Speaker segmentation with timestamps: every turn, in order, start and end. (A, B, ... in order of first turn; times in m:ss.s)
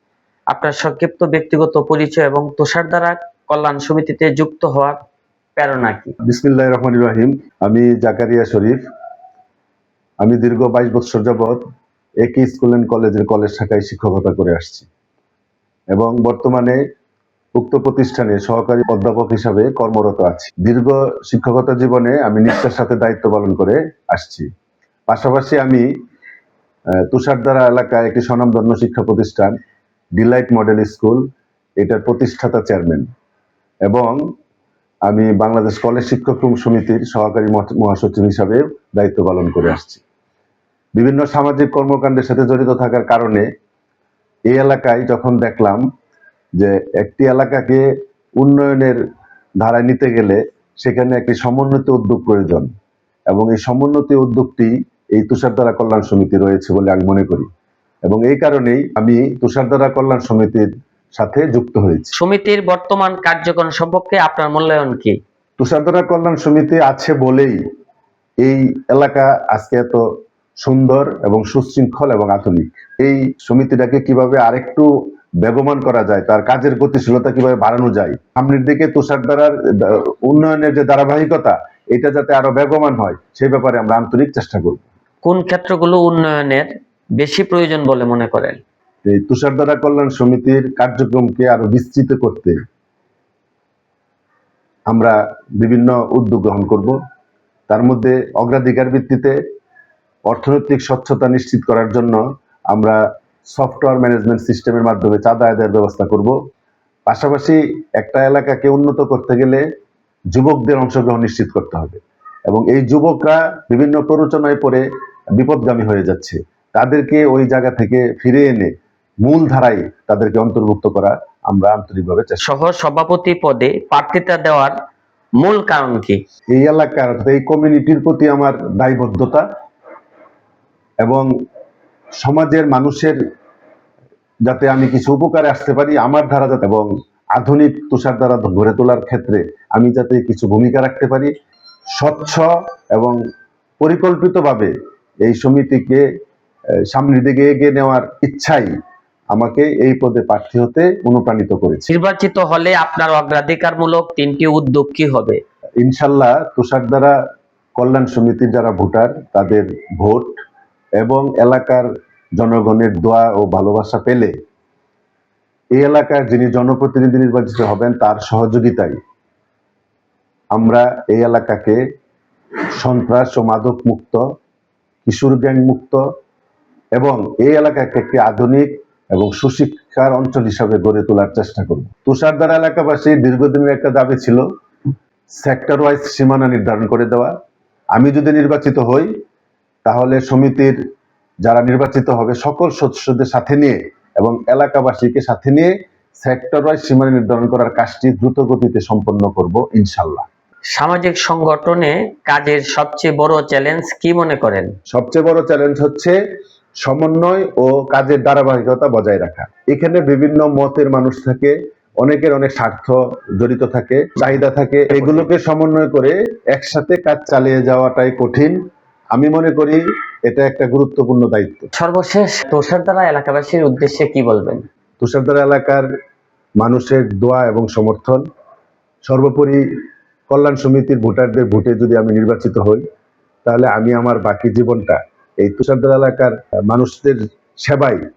0:00.5-0:05.0 A
0:05.6-0:06.1 A
0:06.2-0:08.8 B
0:10.2-0:11.6 B
0:12.2-0:14.9 B
0:15.9-0:16.8 B
0:17.6-0:24.5 B
0:25.1-0:25.9 B
0:27.1-0:29.5 B
0:30.2-0:31.2 B
0:31.8-0:33.0 B
0:33.8-0:34.2 B
0:35.1-0:40.0 B
0:41.0-0:43.4 B
0:44.5-0:45.8 B
0:46.6-0:47.8 B
0:48.4-0:49.0 B
0:49.6-0:52.7 B
0:53.3-0:57.5 B
0:58.0-1:02.1 B
1:02.1-1:05.2 A
1:05.6-1:07.6 B
1:08.4-1:10.0 B
1:10.6-1:14.9 B
1:15.4-1:24.8 B
1:25.2-1:28.6 A
1:29.0-1:32.6 B
1:34.9-1:37.0 B
1:37.7-1:39.4 B
1:40.3-1:43.0 B
1:43.5-1:46.3 B
1:47.1-1:49.6 B
1:50.3-1:54.8 B
1:55.3-1:58.7 B
1:59.2-2:02.4 B
2:02.4-2:04.7 A
2:05.4-2:06.2 A
2:06.5-2:09.4 B
2:11.0-2:11.3 B
2:12.2-2:13.2 B
2:14.4-2:21.3 B
2:21.9-2:23.2 B
2:23.8-2:24.7 B
2:25.2-2:26.0 B
2:26.9-2:28.7 B
2:29.3-2:31.9 B
2:31.9-2:35.4 A
2:35.8-2:37.1 B
2:37.8-2:40.4 B
2:41.0-2:44.3 B
2:45.7-2:49.0 B
2:50.5-2:51.8 B
2:52.8-2:54.2 B
2:55.0-2:56.0 B
2:56.9-3:04.4 B
3:05.4-3:07.3 B
3:08.0-3:09.1 B
3:09.8-3:10.8 B
3:11.4-3:20.3 B
3:20.7-3:24.7 A
3:24.9-3:26.2 B
3:26.8-3:38.6 B
3:39.1-3:41.7 B
3:41.7-3:44.6 A
3:45.0-3:45.8 B
3:46.6-3:48.2 B
3:49.0-3:49.6 B
3:50.3-3:52.8 B
3:53.4-3:58.0 B